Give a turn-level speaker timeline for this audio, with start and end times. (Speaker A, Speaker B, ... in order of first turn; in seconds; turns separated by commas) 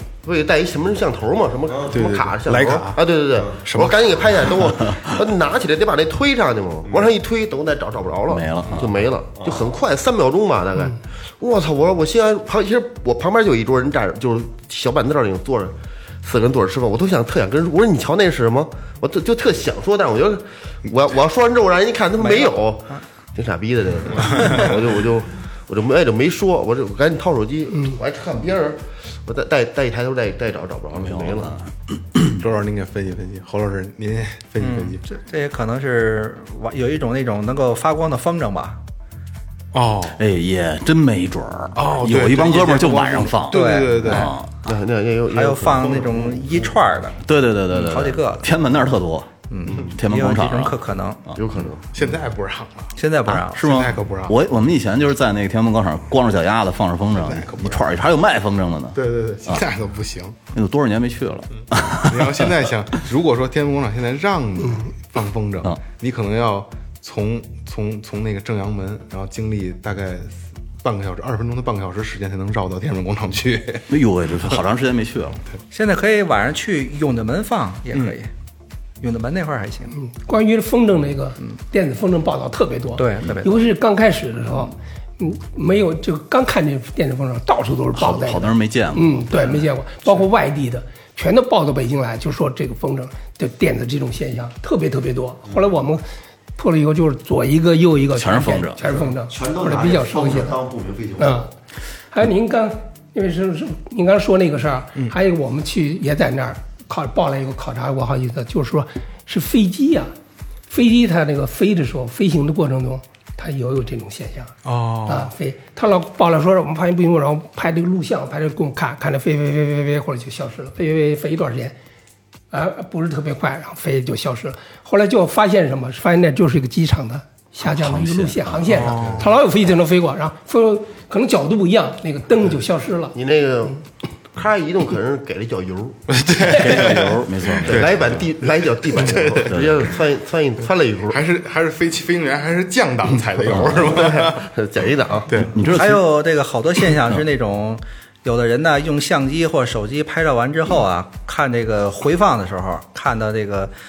Speaker A: 0.2-31.6, Speaker B: 1.7-2.0, Speaker C: 1.9-4.5, Speaker D: 8.3-8.9, Speaker B: 8.7-9.7, Speaker E: 22.2-23.0, Speaker D: 30.9-32.4, Speaker C: 32.4-35.0, Speaker E: 34.6-38.8, Speaker C: 39.7-40.2, Speaker D: 40.2-44.5, Speaker C: 41.8-44.4, Speaker E: 43.5-44.3, Speaker A: 44.6-46.6, Speaker E: 45.3-48.6, Speaker D: 47.2-51.4, Speaker E: 49.5-51.2, Speaker A: 51.3-51.9, Speaker C: 51.9-52.9, Speaker E: 53.0-53.6, Speaker D: 53.3-59.6, Speaker C: 53.5-54.4, Speaker C: 57.1-58.0, Speaker C: 58.9-60.4, Speaker D: 60.5-62.5, Speaker C: 61.7-73.8, Speaker D: 73.9-75.4, Speaker E: 75.7-78.3, Speaker E: 79.0-79.9, Speaker F: 79.9-96.0, Speaker E: 83.0-83.6, Speaker D: 87.9-89.2, Speaker F: 96.5-100.6, Speaker D: 98.2-98.8, Speaker B: 99.1-101.5, Speaker F: 101.2-101.5, Speaker F: 102.1-110.1, Speaker F: 110.7-121.8, Speaker C: 114.6-115.3, Speaker F: 122.5-133.2, Speaker D: 127.7-129.1, Speaker C: 128.7-129.3, Speaker A: 133.1-133.8, Speaker A: 134.3-136.0, Speaker C: 136.1-138.1, Speaker D: 136.5-138.2, Speaker A: 137.6-141.2, Speaker C: 138.9-139.5, Speaker D: 139.5-139.8, Speaker C: 141.1-144.5, Speaker A: 143.6-145.3, Speaker C: 145.3-145.6, Speaker D: 145.5-146.0, Speaker E: 145.7-153.7